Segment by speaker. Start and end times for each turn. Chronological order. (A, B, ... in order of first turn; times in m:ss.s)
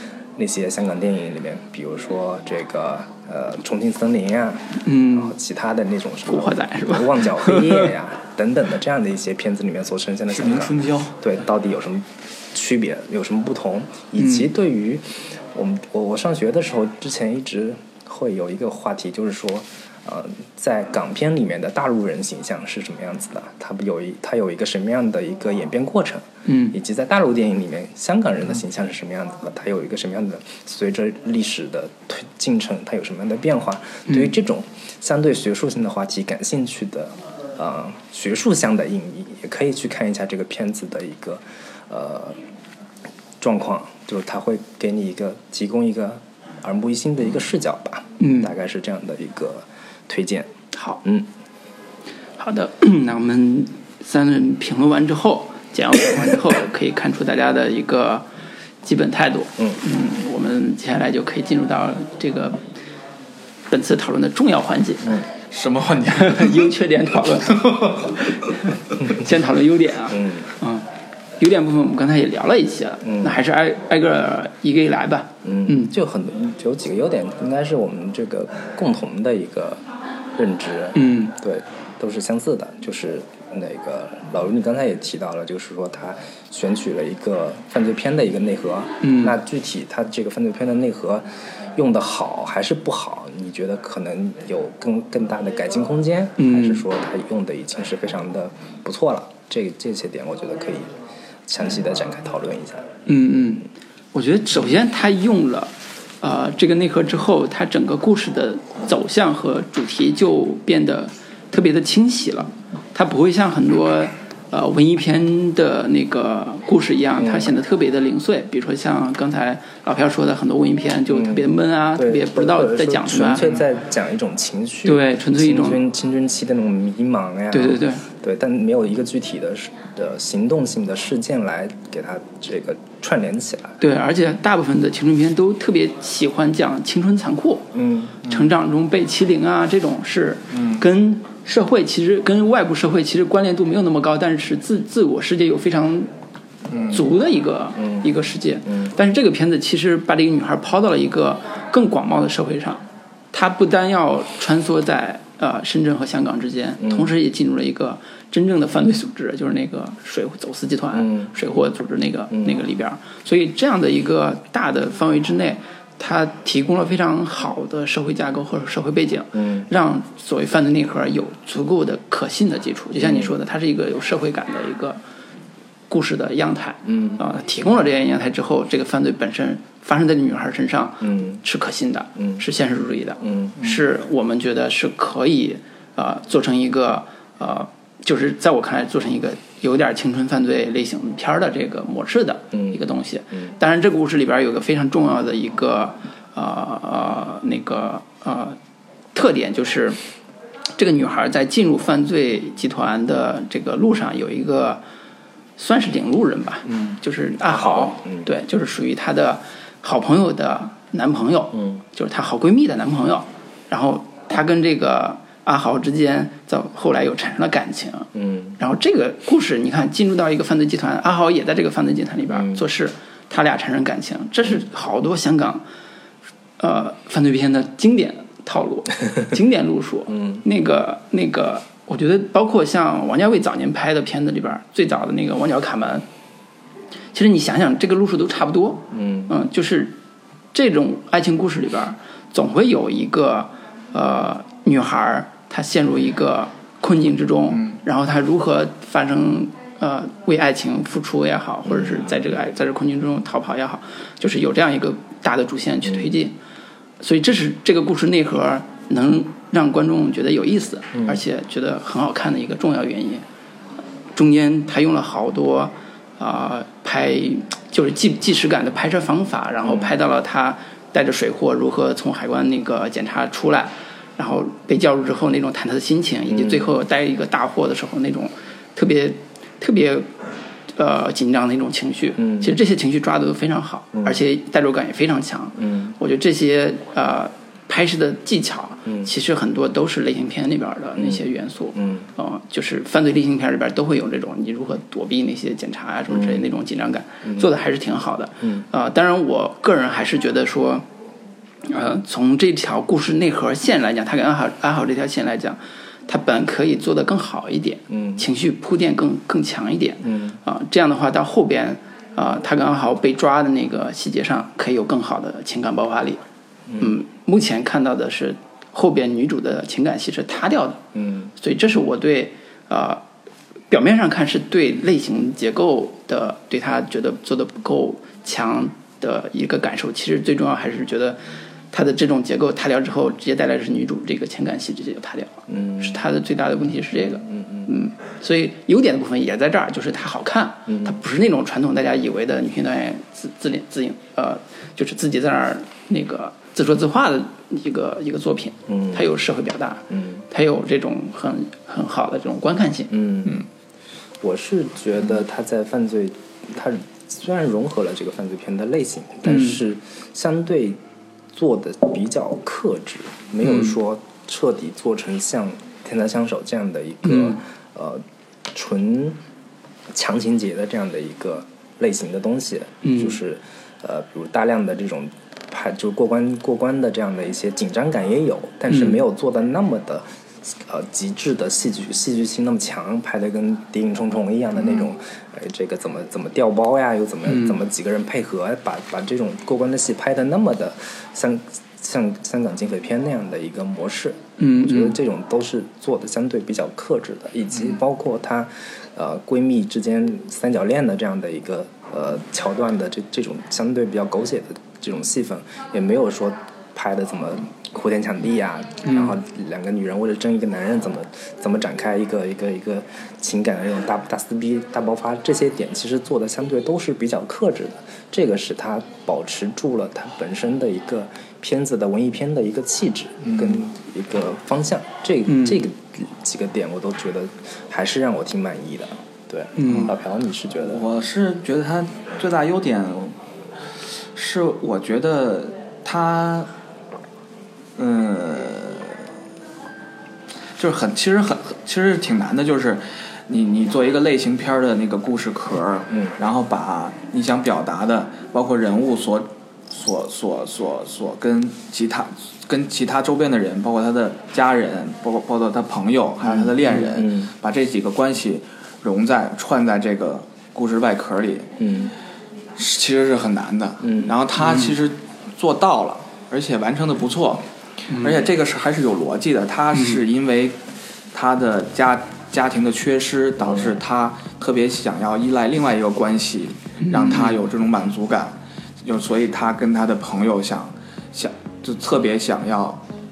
0:00.4-0:42.4 A
0:04.8-0:05.4 B
0:06.3-0:07.9 B
0:10.3-0:11.2 C
0:14.2-0:14.5 B
0:26.4-0:26.8 B
0:34.1-0:34.3 B
0:43.4-0:50.5 A
0:48.2-0:48.5 B
0:50.7-0:51.0 B
0:51.0-0:51.3 A
0:52.4-0:58.2 B
0:58.8-1:02.6 B
1:03.7-1:05.2 B
1:05.5-1:06.7 C
1:06.1-1:10.9 B
1:07.3-1:08.2 C
1:10.1-1:10.5 A
1:11.4-1:15.9 B
1:13.0-1:13.4 A
1:15.4-1:19.8 A
1:20.4-1:40.9 A
1:20.9-1:21.3 B
1:29.0-1:29.4 B
1:36.4-1:36.8 B
1:41.5-1:42.9 A
1:43.1-2:03.5 B
1:57.2-1:57.5 A
2:01.1-2:13.8 A
2:04.8-2:05.8 B
2:07.5-2:08.0 B
2:13.8-2:26.1 B
2:17.7-2:18.2 A
2:18.2-2:18.5 C
2:20.5-2:20.8 C
2:26.7-2:27.0 C
2:26.9-2:55.0 B
2:27.8-2:28.0 A
2:36.8-2:37.1 A
2:40.9-2:41.3 A
2:49.3-2:49.7 A
2:53.0-2:53.3 A
2:55.9-3:18.6 B
2:56.8-2:57.2 A
3:01.0-3:01.4 A
3:03.2-3:03.6 A
3:19.1-3:20.0 B
3:20.8-3:24.8 B
3:25.6-3:45.6 B
3:27.4-3:28.3 A
3:38.1-3:38.6 A
3:42.3-3:42.6 A
3:46.6-3:56.0 B
3:50.1-3:50.4 A
3:57.1-4:00.0 B
3:58.9-3:59.3 A
4:00.5-4:16.3 B
4:11.7-4:12.0 A
4:17.0-4:23.2 B
4:24.1-4:40.1 B
4:29.6-4:29.9 A
4:36.3-4:36.7 A
4:40.8-5:00.8 B
4:42.2-4:42.5 A
4:43.9-4:44.2 A
4:45.6-4:46.0 A
4:51.0-4:51.2 A
4:51.7-4:52.1 A
4:56.1-4:56.4 A
5:01.6-5:16.2 B
5:07.9-5:08.2 A
5:10.0-5:10.4 A
5:16.8-5:20.8 B
5:20.9-5:21.3 A
5:21.4-5:23.0 B
5:23.7-5:31.2 B
5:31.7-5:53.0 B
5:35.5-5:36.0 A
5:37.2-5:37.7 A
5:40.7-5:41.0 A
5:48.7-5:49.0 A
5:49.9-5:50.2 A
5:52.9-5:53.4 A
5:54.2-6:00.8 A
5:59.2-5:59.6 B
6:01.3-6:09.2 A
6:03.4-6:03.7 B
6:07.0-6:07.4 B
6:09.9-7:10.8 A
6:12.8-6:13.2 B
6:18.7-6:19.0 B
6:27.3-6:27.5 B
6:34.4-6:35.0 B
6:48.8-6:49.1 B
7:03.2-7:03.6 C
7:05.2-7:05.6 B
7:09.6-7:09.9 B
7:09.6-7:09.9 C
7:10.7-7:13.2 C
7:14.1-7:16.5 C
7:17.8-7:19.0 C
7:20.6-7:41.5 C
7:36.3-7:37.3 A
7:41.6-7:41.9 A
7:42.6-7:50.6 C
7:43.8-7:44.1 A
7:44.4-7:44.7 B
7:47.9-7:48.2 B
7:51.1-8:02.8 C
7:56.8-7:57.4 B